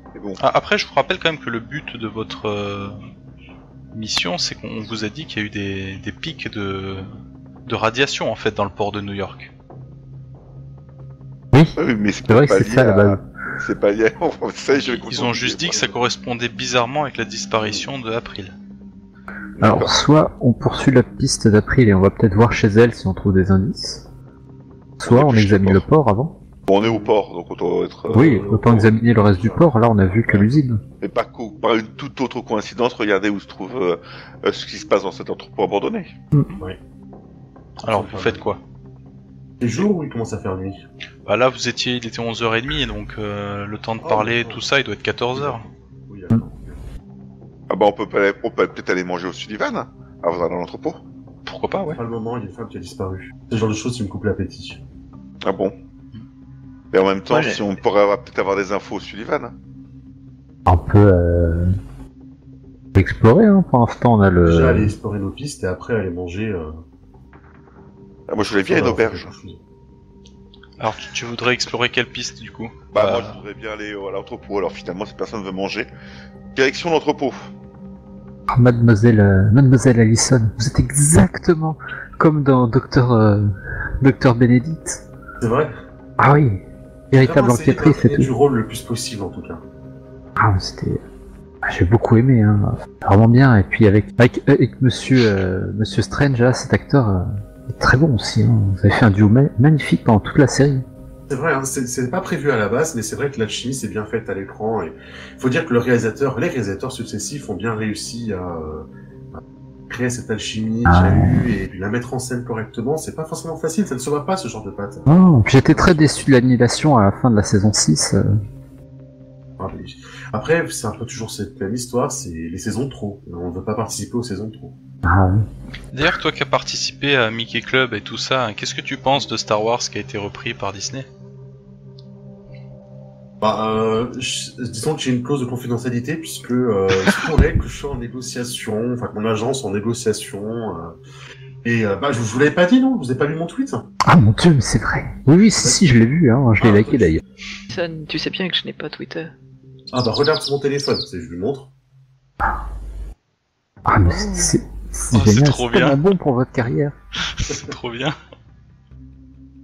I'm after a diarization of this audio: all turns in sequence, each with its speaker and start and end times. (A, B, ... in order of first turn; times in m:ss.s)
0:00.1-0:00.4 A
0:00.4-0:03.0 B
0:03.9-0:07.1 B
0:07.6-0:09.5 B
0:11.8-0:15.9 A
0:12.3-0:13.2 C
0:14.7-0:18.5 B
0:19.6-0:19.9 A
0:19.6-0:24.0 C
0:25.0-0:26.4 C
0:25.0-0:25.8 A
0:26.7-0:28.5 A
0:26.8-0:27.1 D
0:28.1-0:29.7 D
0:28.1-0:30.8 C
0:31.0-0:36.1 A
0:37.8-0:38.6 B
0:37.9-0:38.4 D
0:39.6-0:40.8 D
0:41.2-0:45.6 B
0:44.0-0:44.6 D
0:45.3-0:46.8 D
0:47.7-0:51.0 A
0:51.4-0:52.0 B
0:51.9-0:54.8 D
0:55.4-0:55.7 A
0:56.9-0:59.5 A
0:57.3-0:57.6 E
1:00.6-1:01.7 C
1:02.9-1:04.9 C
1:04.4-1:06.7 D
1:08.3-1:09.3 A
1:08.6-1:09.6 D
1:10.8-1:13.4 B
1:12.9-1:15.9 A
1:16.5-1:17.5 A
1:18.5-1:25.0 C
1:25.4-1:25.7 D
1:26.2-1:28.3 C
1:27.2-1:29.6 D
1:30.4-1:31.0 C
1:31.6-1:40.8 C
1:41.3-1:55.1 D
1:50.9-1:51.5 C
1:55.1-1:58.4 C
1:55.6-1:56.1 D
1:59.6-2:04.7 D
2:05.0-2:05.4 C
2:05.9-2:11.1 B
2:13.4-2:21.0 D
2:21.6-2:23.9 D
2:24.0-2:27.2 C
2:26.6-2:27.2 D
2:27.7-2:29.3 E
2:29.9-2:31.7 D
2:33.8-2:37.0 C
2:34.1-2:34.5 E
2:35.1-2:36.0 B
2:37.2-2:38.2 B